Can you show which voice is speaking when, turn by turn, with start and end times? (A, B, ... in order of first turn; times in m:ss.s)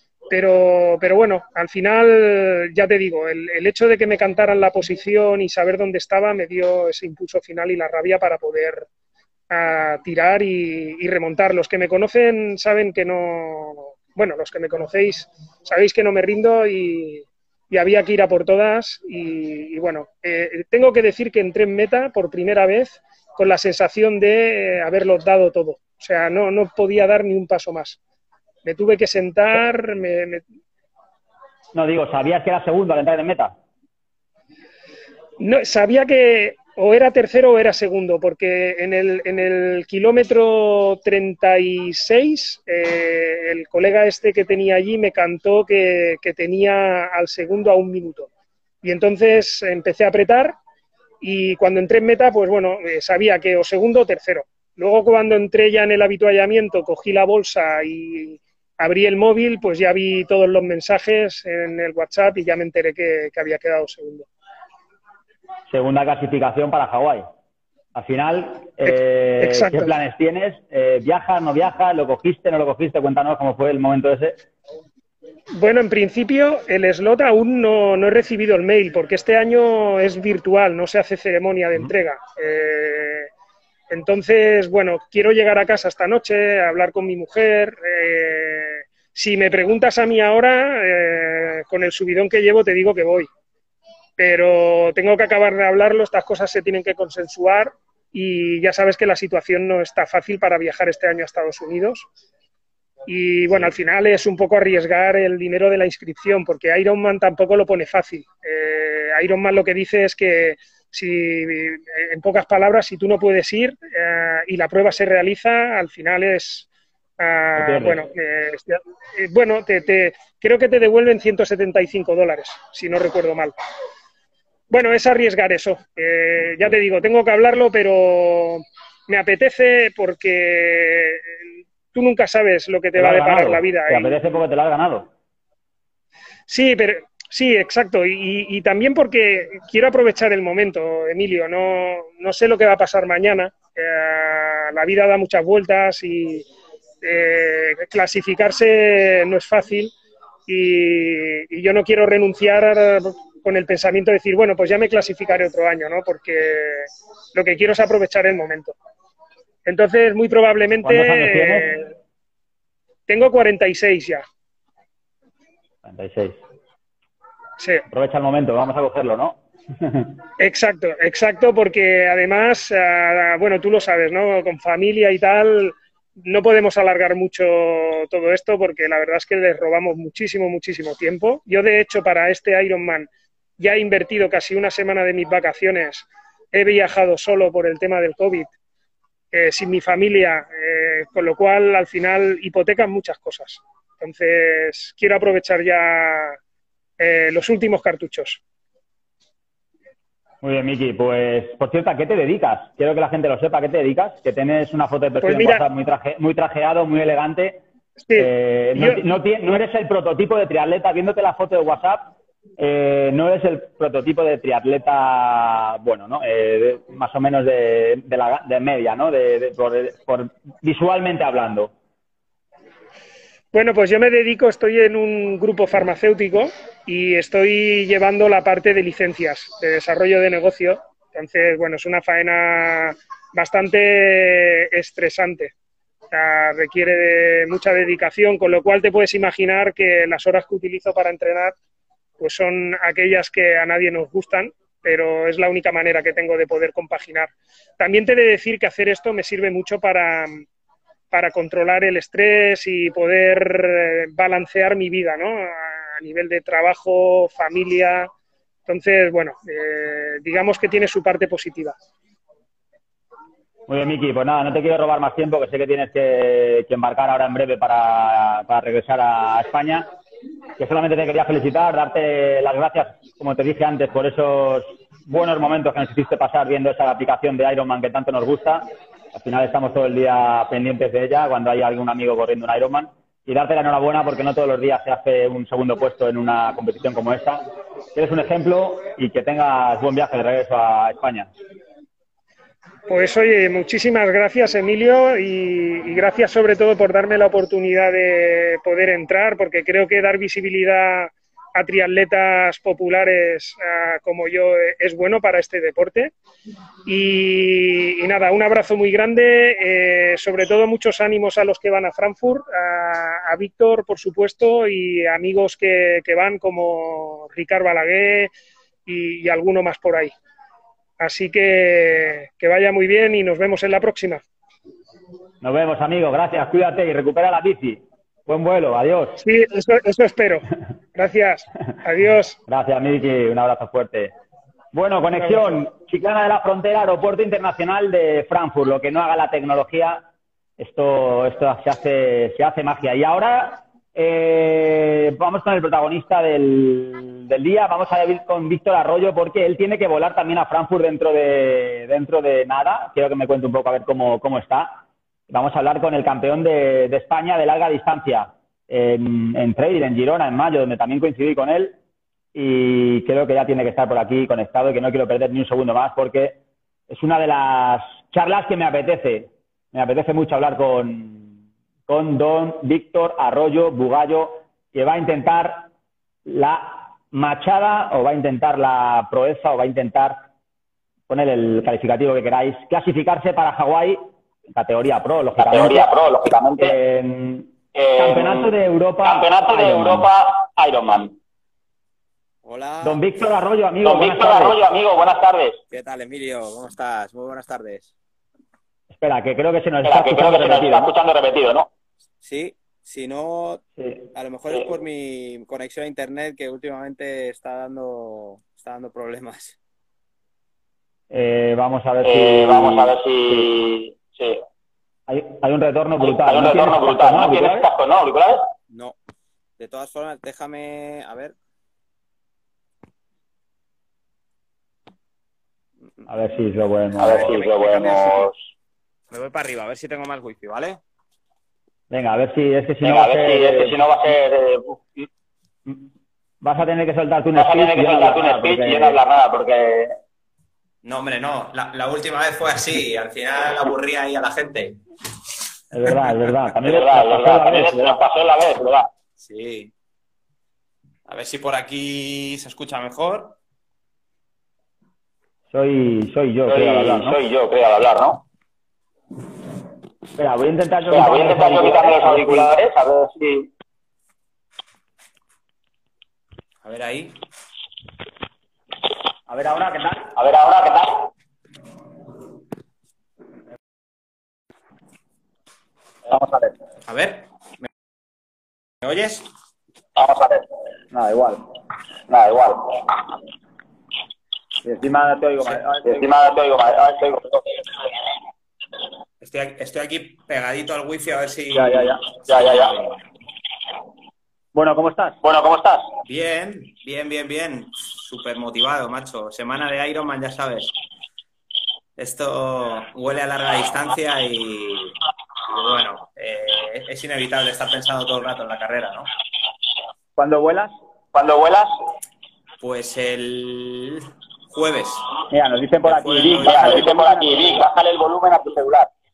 0:00.3-0:08.9 A
0:09.5-0:28.0 A
0:28.6-0:30.4 A
0:31.7-0:33.6 B
0:35.4-0:48.3 A
0:48.8-0:50.6 A
0:51.2-1:04.3 A
1:05.7-1:07.3 B
1:08.0-1:14.4 B
1:08.8-1:09.9 A
1:15.6-1:23.3 A
1:23.9-1:33.3 A
1:34.2-1:42.1 A
1:43.1-1:56.7 A
1:57.2-2:03.6 A
1:57.6-1:58.1 B
2:04.7-2:11.2 A
2:11.9-2:14.4 A
2:13.0-2:15.1 B
2:16.5-2:26.5 A
2:27.0-2:29.9 A
2:30.5-2:38.7 A
2:39.6-2:41.9 A
2:40.8-2:41.8 B
2:43.1-2:44.2 A
2:45.8-2:46.4 B
2:47.6-2:47.8 A
2:47.9-2:50.2 B
2:50.4-3:08.5 A
3:09.3-3:16.4 A
3:17.0-3:18.4 A
3:20.4-3:27.6 B
3:25.2-3:25.6 A
3:28.1-3:29.0 A
3:28.2-3:41.7 B
3:43.5-3:55.5 A
3:56.1-4:01.5 A
4:02.2-4:10.4 A
4:11.1-4:18.1 A
4:18.7-4:21.8 A
4:23.7-4:29.9 B
4:30.6-4:47.4 B
4:48.0-4:51.3 B
4:52.9-5:06.1 A
5:06.9-5:18.3 A
5:18.9-5:20.1 A
5:21.0-5:24.2 A
5:25.4-5:29.2 B
5:29.2-5:32.4 A
5:32.5-5:34.1 B
5:34.7-5:40.0 B
5:40.6-6:01.8 B
6:02.4-6:06.4 B
6:06.9-6:11.4 B
6:11.9-6:15.7 B
6:16.3-6:20.2 B
6:21.1-6:24.0 B
6:24.5-6:30.1 B
6:25.4-6:26.8 C
6:27.8-6:28.5 C
6:29.0-6:31.1 C
6:32.4-6:33.0 D
6:32.8-6:34.6 B
6:33.8-6:35.6 C
6:35.7-6:37.9 D
6:38.9-6:40.9 B
6:39.8-6:41.7 C
6:42.2-6:49.6 D
6:43.8-6:44.0 B
6:51.1-6:53.5 B
6:52.0-6:54.4 C
6:55.1-6:57.7 B
6:56.0-6:58.5 C
6:58.7-6:59.0 D
6:59.6-7:01.4 D
7:06.1-7:07.5 B
7:07.0-7:08.4 C
7:07.0-7:08.3 D
7:09.1-7:10.8 D
7:11.9-7:13.8 B
7:12.8-7:15.1 C
7:16.4-7:19.0 B
7:17.3-7:20.0 C
7:20.8-7:24.8 D
7:25.7-7:28.0 B
7:26.6-7:28.9 C
7:29.2-7:29.7 D
7:31.1-7:33.4 D
7:35.5-7:37.2 B
7:36.5-7:38.2 C
7:40.2-7:42.6 B
7:40.9-7:43.5 C
7:46.6-7:47.2 D
7:49.3-7:49.9 B
7:50.1-7:51.1 C
7:56.9-7:57.7 D
7:58.8-7:59.3 D
8:00.0-8:00.4 C
8:02.1-8:02.7 C
8:04.6-8:06.1 B
8:05.8-8:07.4 C
8:09.2-8:13.0 D
8:11.6-8:11.8 B
8:12.3-8:12.7 C
8:14.6-8:15.1 E
8:15.2-8:15.8 C
8:16.0-8:20.8 D
8:22.0-8:29.1 D
8:30.2-8:30.7 E
8:31.1-8:31.7 C
8:32.6-8:35.1 D
8:35.3-8:37.4 E
8:35.8-8:36.9 D
8:36.4-8:38.9 C
8:36.5-8:37.4 B